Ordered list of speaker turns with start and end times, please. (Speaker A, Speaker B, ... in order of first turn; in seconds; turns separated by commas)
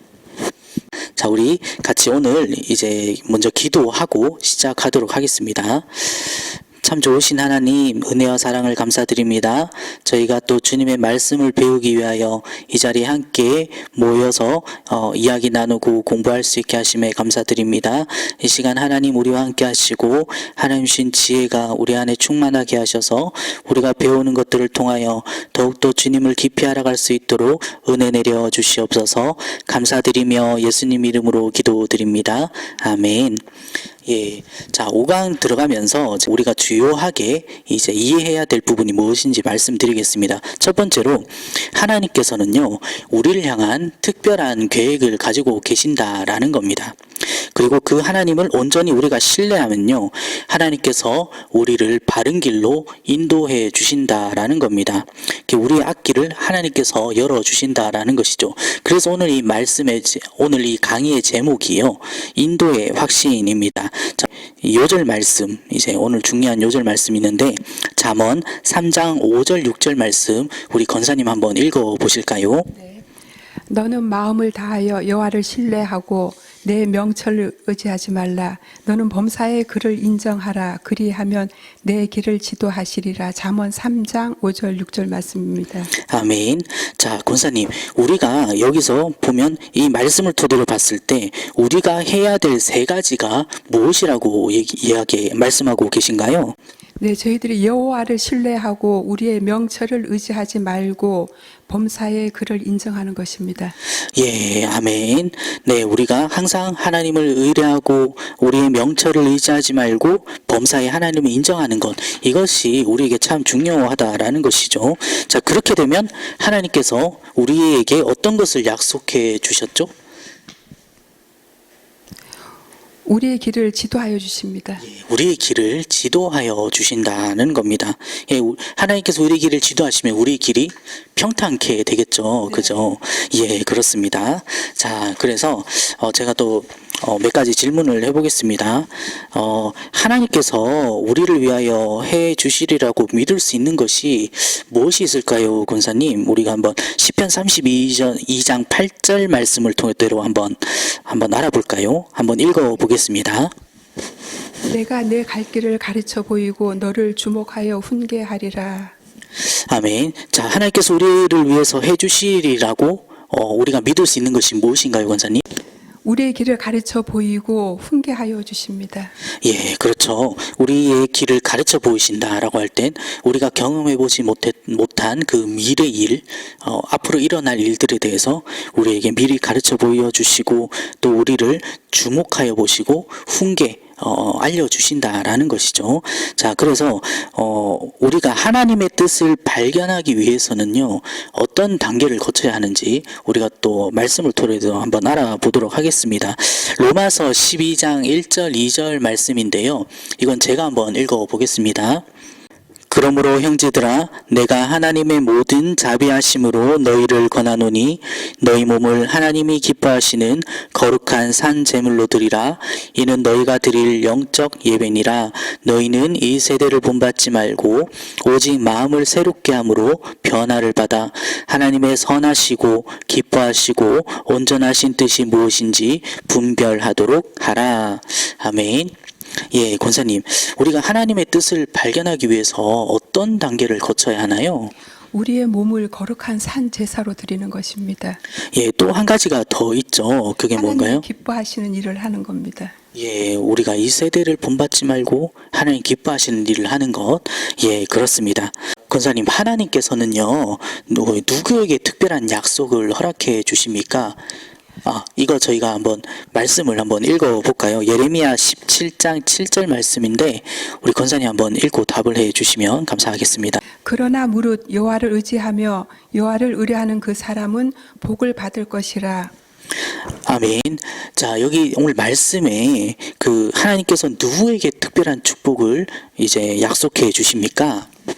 Speaker A: 1.2-33.4, Speaker A: 34.0-72.7, Speaker B: 72.7-73.0, Speaker B: 73.7-85.9, Speaker A: 86.1-96.5, Speaker B: 97.0-103.8, Speaker A: 104.2-119.9, Speaker B: 123.0-124.8, Speaker A: 124.8-153.5, Speaker B: 132.5-132.8, Speaker B: 154.7-158.9, Speaker A: 159.4-165.4, Speaker B: 166.0-169.1, Speaker A: 169.4-202.0, Speaker A: 202.9-228.9, Speaker A: 229.5-234.7, Speaker B: 235.1-238.2, Speaker A: 238.5-241.0, Speaker B: 240.5-242.7, Speaker A: 242.9-254.2, Speaker A: 254.8-263.6, Speaker B: 263.8-269.3, Speaker A: 270.2-277.9